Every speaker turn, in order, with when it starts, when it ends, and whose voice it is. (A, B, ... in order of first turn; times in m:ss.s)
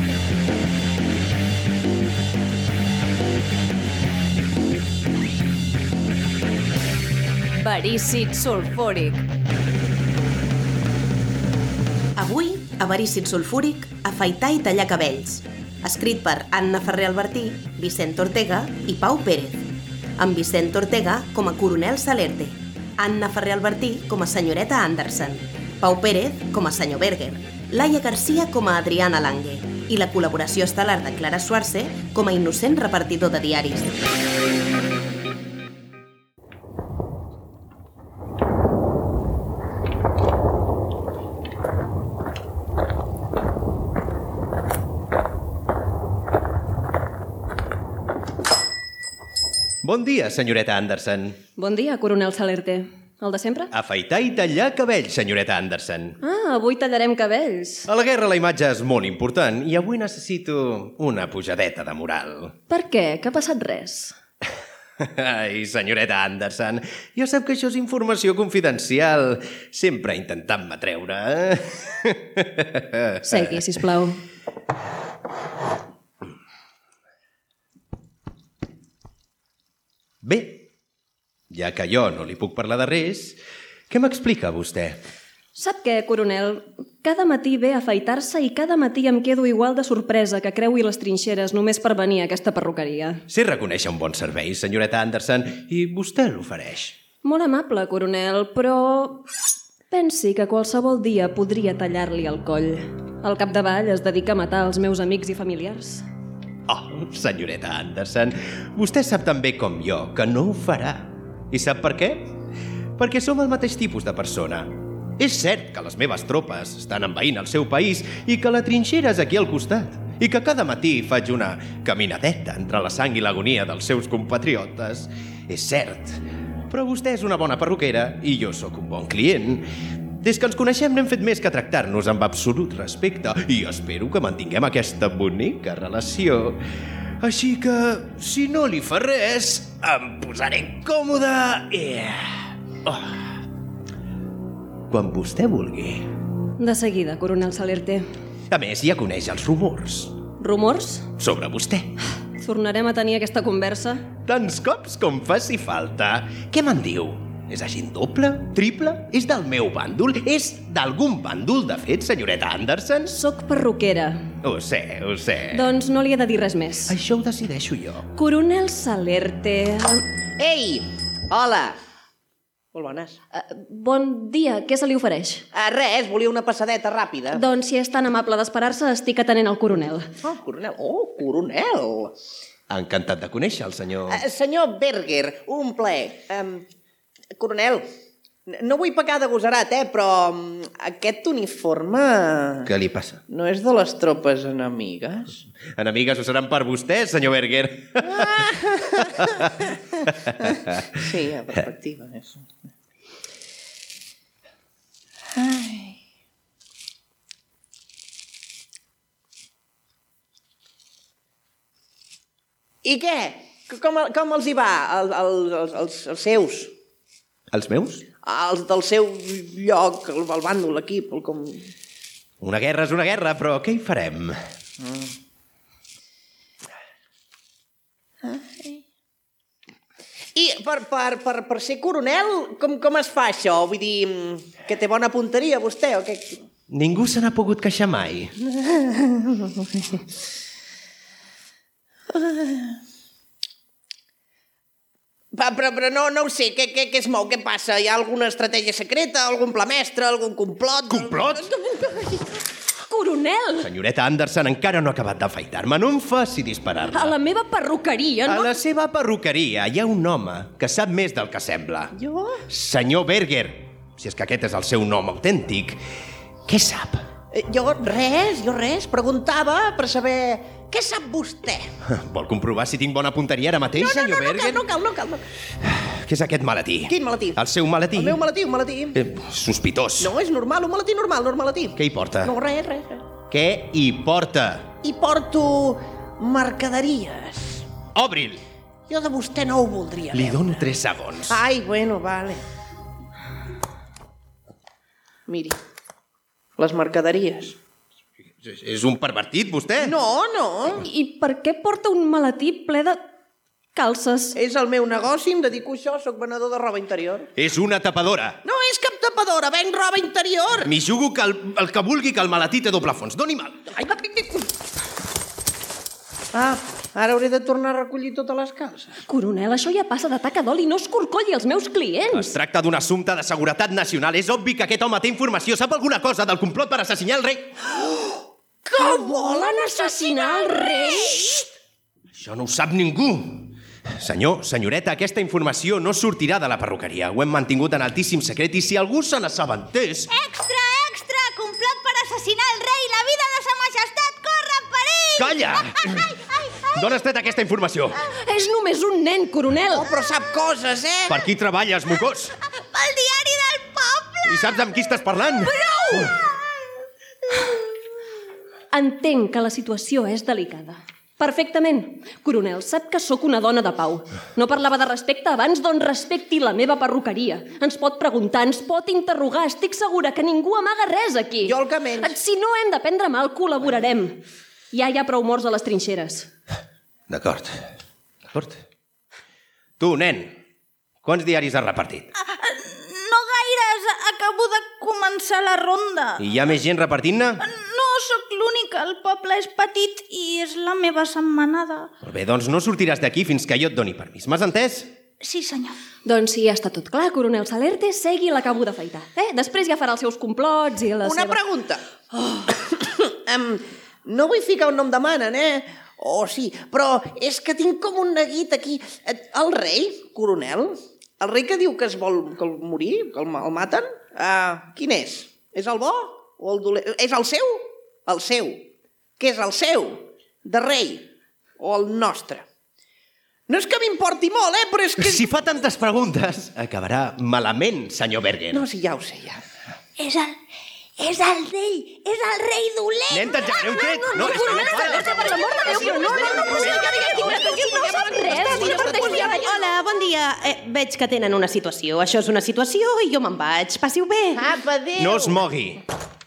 0:07.6-0:09.2 A
0:12.1-0:34.0 B
0:49.8-0:51.4 C
0:51.6-0:53.7 D
0:53.7-0:56.2 C
0:56.2-0:57.9 D
0:57.8-1:02.5 C
1:02.7-1:04.1 D
1:05.0-1:13.6 C
1:13.3-1:14.2 D
1:20.2-1:20.7 C
1:21.5-1:23.4 C
1:23.9-1:25.0 C
1:25.5-1:33.2 D
1:33.3-1:36.9 C
1:37.2-1:39.2 D
1:39.9-1:46.0 D
1:46.7-1:52.3 C
1:53.0-2:16.6 C
2:17.2-2:23.4 C
2:24.9-2:26.1 C
2:26.6-2:28.0 D
2:28.5-2:30.2 C
2:30.4-2:31.0 D
2:31.2-2:31.9 C
2:32.4-2:34.0 D
2:34.2-2:43.1 C
2:43.1-2:44.2 D
2:44.4-2:45.7 C
2:45.5-2:46.9 D
2:46.8-2:48.1 C
2:48.1-2:50.0 D
2:50.4-2:51.8 E
2:52.7-2:53.2 E
2:53.3-2:55.4 D
2:55.5-2:57.4 E
2:57.3-3:00.1 D
3:00.2-3:02.1 E
3:02.7-3:04.2 C
3:04.1-3:06.6 E
3:07.4-3:07.8 E
3:08.5-3:12.7 E
3:12.6-3:13.2 C
3:13.3-3:15.4 E
3:15.8-3:20.9 C
3:18.2-3:18.6 E
3:21.0-3:22.5 E
3:25.3-3:26.0 E
3:32.8-3:36.7 E
3:37.5-3:38.0 C
3:38.2-3:41.7 E
3:42.4-3:44.4 C
3:44.8-3:45.1 E
3:48.2-3:48.8 E
3:50.3-3:56.4 E
3:56.7-3:58.3 C
3:58.5-3:59.8 E
4:02.1-4:02.8 E
4:05.3-4:12.2 E
4:10.9-4:11.5 C
4:12.9-4:13.6 D
4:13.6-4:17.1 C
4:16.9-4:18.5 D
4:18.2-4:21.9 C
4:21.9-4:22.4 E
4:22.5-4:25.8 C
4:26.4-4:27.0 C
4:27.3-4:31.7 E
4:31.8-4:34.6 C
4:33.7-4:35.2 E
4:35.6-4:38.2 C
4:36.9-4:37.4 E
4:37.9-4:39.0 E
4:38.9-4:40.1 C
4:40.0-4:43.0 E
4:41.8-4:42.3 C
4:43.3-4:44.7 C
4:44.8-4:47.6 E
4:47.9-4:48.4 C
4:48.9-4:50.6 E
4:50.1-4:51.4 C
4:51.3-4:52.4 E
4:55.3-4:55.6 E
4:56.6-4:57.6 E
4:58.4-4:59.9 C
4:59.8-5:00.8 E
5:00.8-5:03.0 D
5:03.7-5:04.4 D
5:04.3-5:07.3 E
5:07.4-5:08.4 C
5:08.4-5:10.7 E
5:10.6-5:13.6 C
5:13.7-5:14.5 E
5:16.3-5:19.0 E
5:19.1-5:22.3 D
5:22.1-5:27.7 C
5:27.8-5:31.5 E
5:29.6-5:30.9 D
5:32.1-5:40.1 C
5:40.1-5:46.7 F
5:45.2-5:46.0 C
5:46.7-5:48.0 C
5:48.1-5:49.8 D
5:49.7-5:51.2 E
5:51.1-5:52.3 C
5:52.5-5:54.4 F
5:54.2-5:56.1 C
5:55.4-5:55.9 F
5:58.7-6:14.2 D
6:11.4-6:12.1 E
6:14.7-6:16.3 D
6:17.1-6:17.6 C
6:18.3-6:18.6 C
6:19.8-6:20.4 C
6:21.0-6:22.1 C
6:22.2-6:26.3 F
6:26.2-6:27.4 C
6:27.4-6:31.9 F
6:32.0-6:34.9 C
6:35.2-6:35.8 F
6:36.0-6:41.4 D
6:41.0-6:41.8 E
6:42.4-6:58.6 E
6:59.2-7:02.4 E
7:03.5-7:05.2 E
7:05.0-7:08.6 C
7:08.5-7:09.4 E
7:10.0-7:10.4 F
7:11.0-7:13.6 F
7:13.1-7:16.9 C
7:13.8-7:16.8 A
7:14.0-7:16.3 D
7:15.6-7:19.7 E
7:16.9-7:19.4 D
7:18.0-7:18.8 A
7:18.9-7:24.4 B
7:24.3-7:25.4 E
7:25.0-7:25.8 C